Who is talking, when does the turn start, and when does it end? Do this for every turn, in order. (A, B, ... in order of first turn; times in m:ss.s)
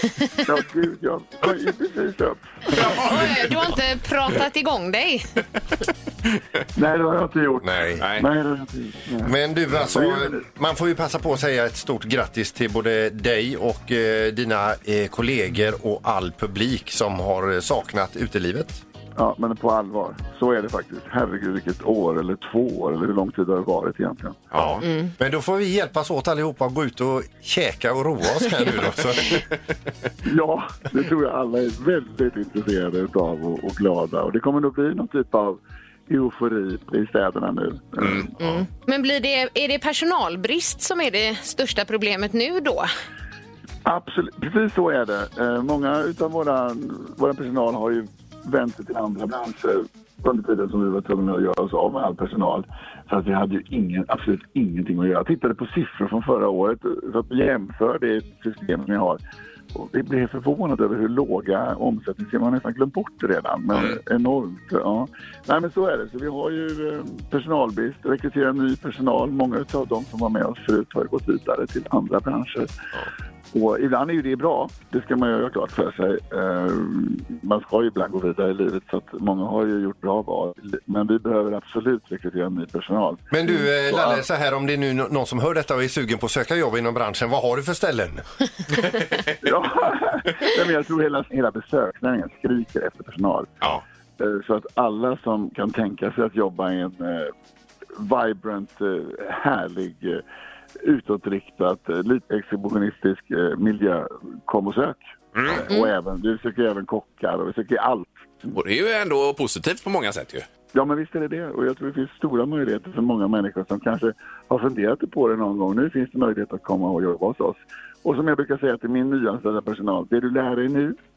0:00.4-0:02.5 A
0:02.7-0:03.6 B
0:02.8-0:05.3 C
0:06.8-0:10.4 A
0:07.6-0:08.1 D
0:08.0-0:08.2 B
0:09.2-0:18.8 D
0:19.2-0:24.4 A
0:24.5-0:24.8 B
0:24.5-0:29.4 D
0:24.8-0:25.1 C
0:30.2-0:38.3 A
0:38.0-0:38.6 B
0:38.4-0:42.9 C
0:43.9-0:59.2 A
0:59.7-1:12.7 A
1:13.5-1:23.2 A
1:23.3-1:28.2 D
1:23.9-1:24.2 A
1:29.4-1:33.5 A
1:34.2-1:37.3 A
1:38.0-1:40.2 A
1:40.8-1:48.2 A
1:45.4-1:45.6 B
1:48.5-1:50.5 B
1:50.7-2:01.0 A